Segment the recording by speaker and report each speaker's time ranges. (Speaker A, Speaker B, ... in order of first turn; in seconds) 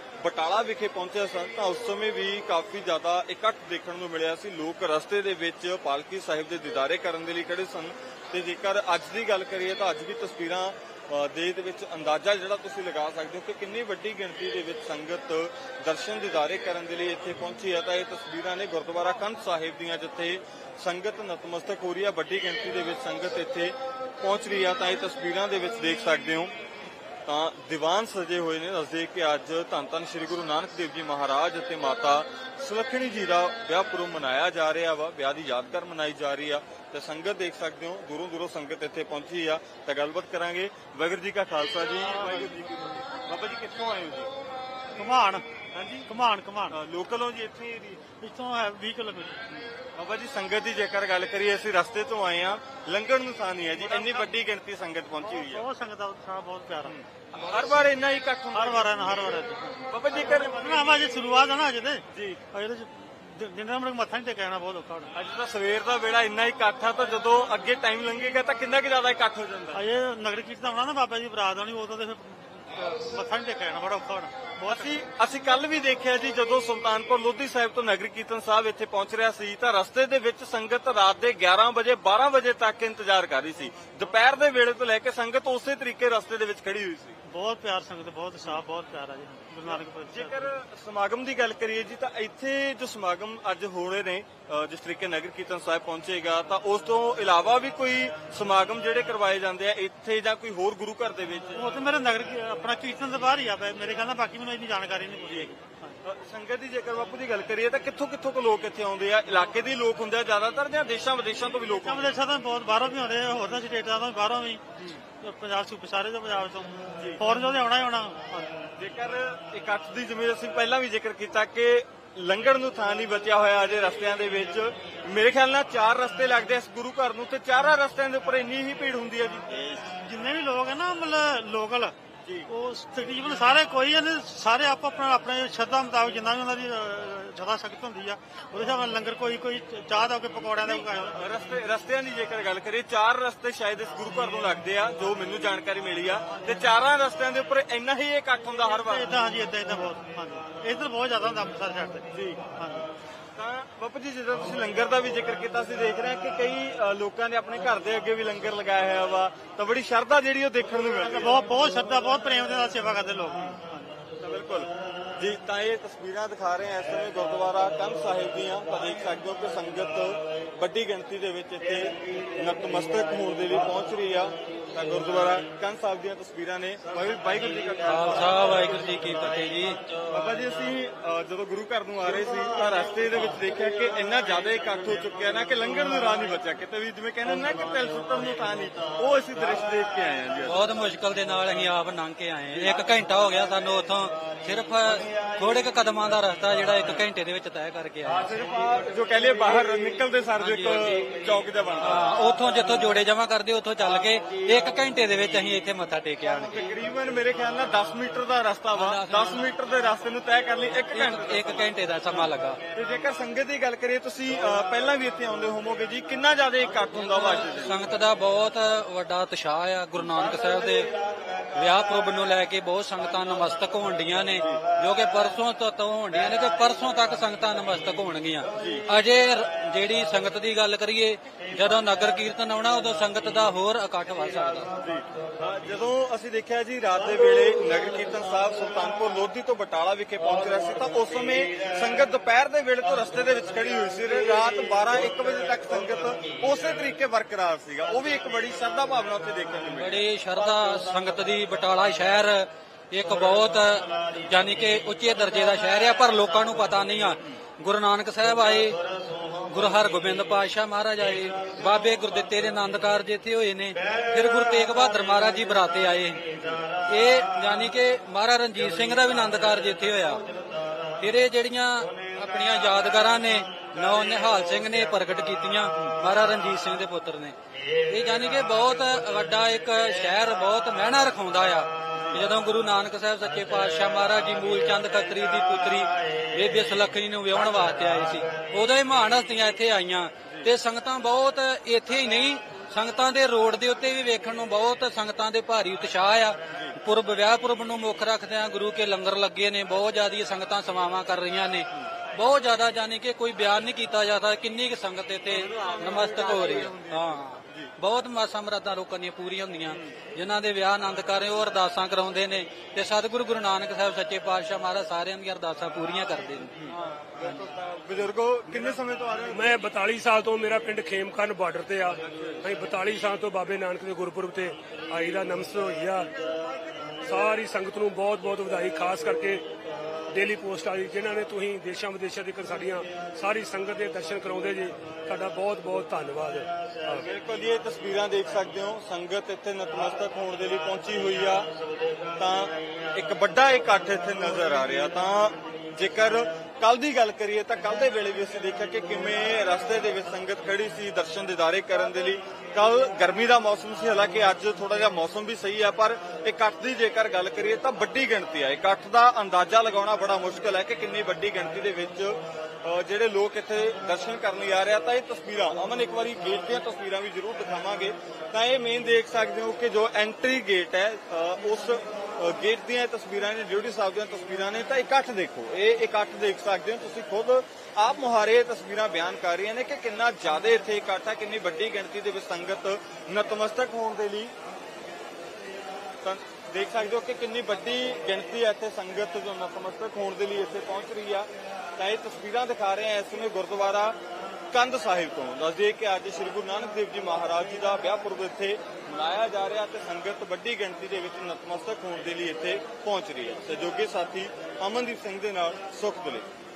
Speaker A: 0.2-26.5, 27.2-44.3, 45.7-46.1, 46.7-48.0, 49.5-55.6, 56.8-61.1, 62.1-62.4, 65.1-69.8, 74.7-87.2, 89.6-101.6, 106.0-112.2, 118.8-129.5, 140.5-149.1, 152.1-152.4, 153.3-161.4, 164.2-178.8, 180.1-190.6, 198.2-202.0, 206.4-211.7, 212.7-217.8, 228.5-228.8, 234.8-250.0, 281.9-282.2, 290.2-290.5, 296.5-296.8, 305.3-307.7, 316.6-319.6, 322.0-322.4, 336.9-341.5, 342.2-384.3, 386.0-394.0, 394.5-406.3
Speaker B: 42.1-42.6, 45.0-45.5, 46.0-46.8, 48.2-49.4, 53.9-54.3, 55.2-56.9, 58.5-65.1, 69.7-75.0, 87.2-90.5, 101.5-106.0, 111.7-118.7, 129.5-131.9, 132.5-141.2, 148.6-152.9, 161.0-164.0
Speaker C: 177.9-179.8, 190.4-198.3, 200.4-201.1, 201.8-206.6, 208.7-209.5, 210.9-212.6, 217.0-220.9, 221.5-234.7, 249.7-258.8, 259.4-270.2, 271.0-277.4, 277.9-317.5
Speaker D: 319.3-326.1, 327.0-329.4, 330.1-337.0